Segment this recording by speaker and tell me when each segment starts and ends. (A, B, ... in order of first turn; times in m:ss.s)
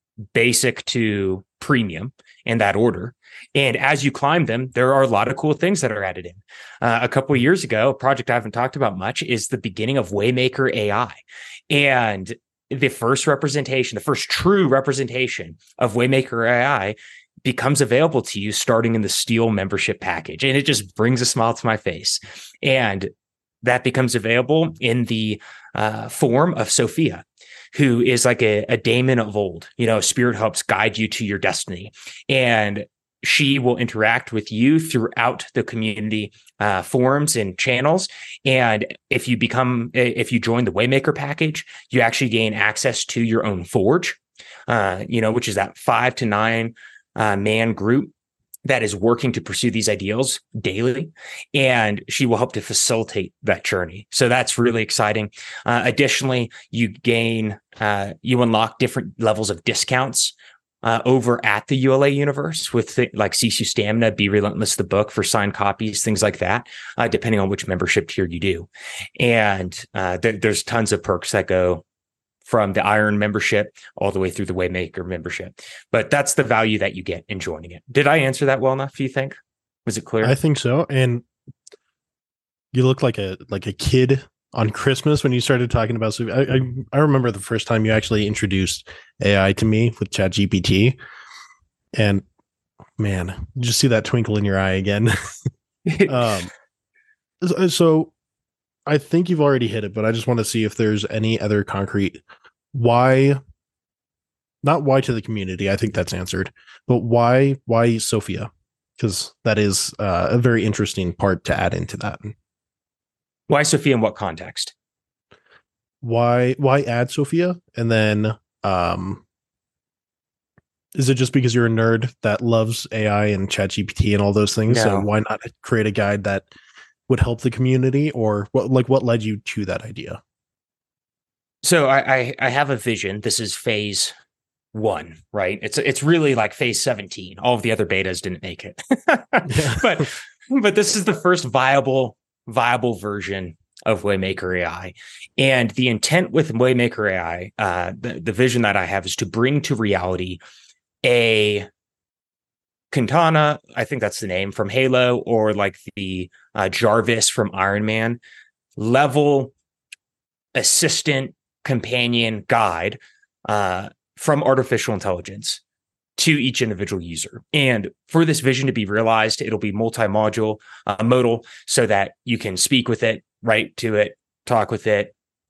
0:00.3-0:23.1 A
0:23.6-0:48.1 A
0:48.7-1:11.8 A
1:12.4-1:20.4 A
1:20.2-1:21.2 B
1:22.7-1:31.0 B
1:32.0-1:32.2 B
1:33.0-1:35.1 B
1:35.9-1:36.3 A
1:36.1-1:36.5 B
1:37.4-1:38.1 B
1:38.9-1:42.2 B
1:42.7-1:43.4 B
1:44.6-1:52.3 B
1:53.5-1:54.7 A
1:56.0-1:59.2 B
2:01.0-2:06.5 B
2:04.7-2:05.1 A
2:07.1-2:10.2 B
2:11.6-2:14.1 A
2:14.7-2:30.4 A
2:31.0-2:31.7 A
2:32.9-2:38.2 A
2:38.8-2:39.5 A
2:40.6-2:45.6 A
2:46.2-2:55.1 A